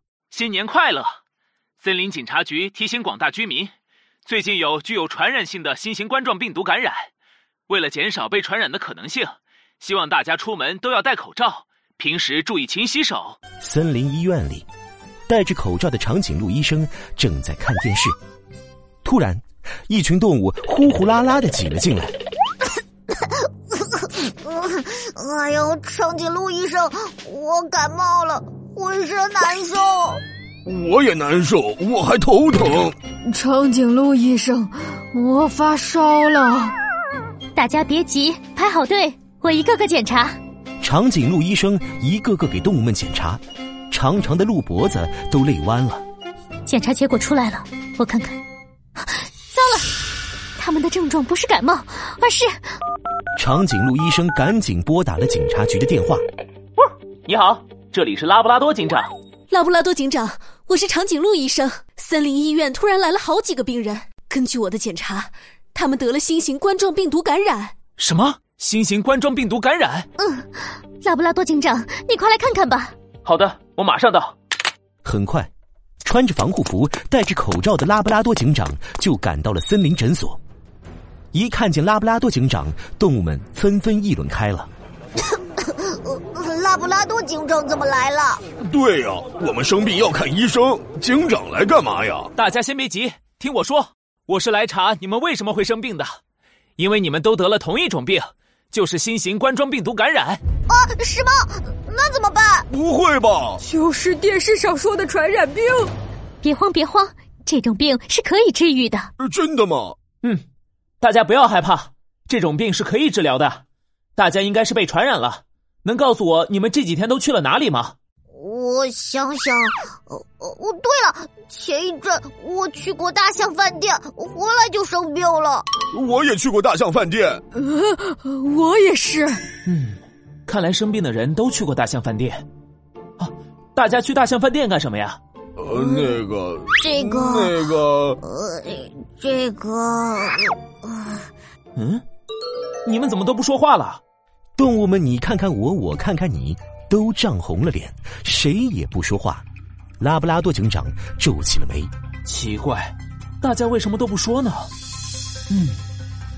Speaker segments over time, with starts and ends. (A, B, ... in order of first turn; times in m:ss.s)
0:00.3-0:01.1 A
0:01.8-0:03.7 A
0:04.2-0:07.1 A
0:07.7-0:13.4 A
0:13.6-0:14.6 B
0:15.3-0:18.1 B
0:19.0-0:22.1 B
0:23.9-0:30.2 C
0:30.6-0:33.0 D
0:33.2-0:36.7 E
0:37.6-0:40.4 F
0:40.8-0:46.0 B
0:46.6-0:48.4 F
0:49.5-0:49.8 F
0:50.6-0:52.5 F
0:53.4-0:56.2 B
0:56.8-0:59.1 A
0:59.5-1:07.7 G
1:08.0-1:10.1 A
1:10.2-1:10.5 F
1:11.0-1:12.9 F
1:13.2-1:14.3 A
1:15.0-1:15.5 B
1:16.0-1:20.4 B
1:21.3-1:24.7 B
1:25.6-1:28.4 C
1:28.6-1:32.3 D
1:32.4-1:36.1 A
1:36.8-1:40.4 A
1:40.7-1:42.7 C
1:42.7-1:43.6 D
1:43.6-1:45.9 E
1:46.4-1:49.1 F
1:49.2-1:50.0 D
1:51.0-1:53.6 A
1:54.2-1:57.9 A
1:58.3-2:05.6 C
2:05.9-2:07.4 D
2:07.6-2:09.4 E
2:09.6-2:12.4 A
2:13.2-2:15.2 A
2:15.6-2:18.2 D
2:15.8-2:16.0 C
2:16.8-2:17.6 C
2:18.2-2:21.2 C
2:21.8-2:22.0 A
2:22.8-2:24.0 A
2:24.6-2:29.4 B
2:30.0-2:31.9 B
2:32.2-2:34.7 A
2:35.5-2:35.8 A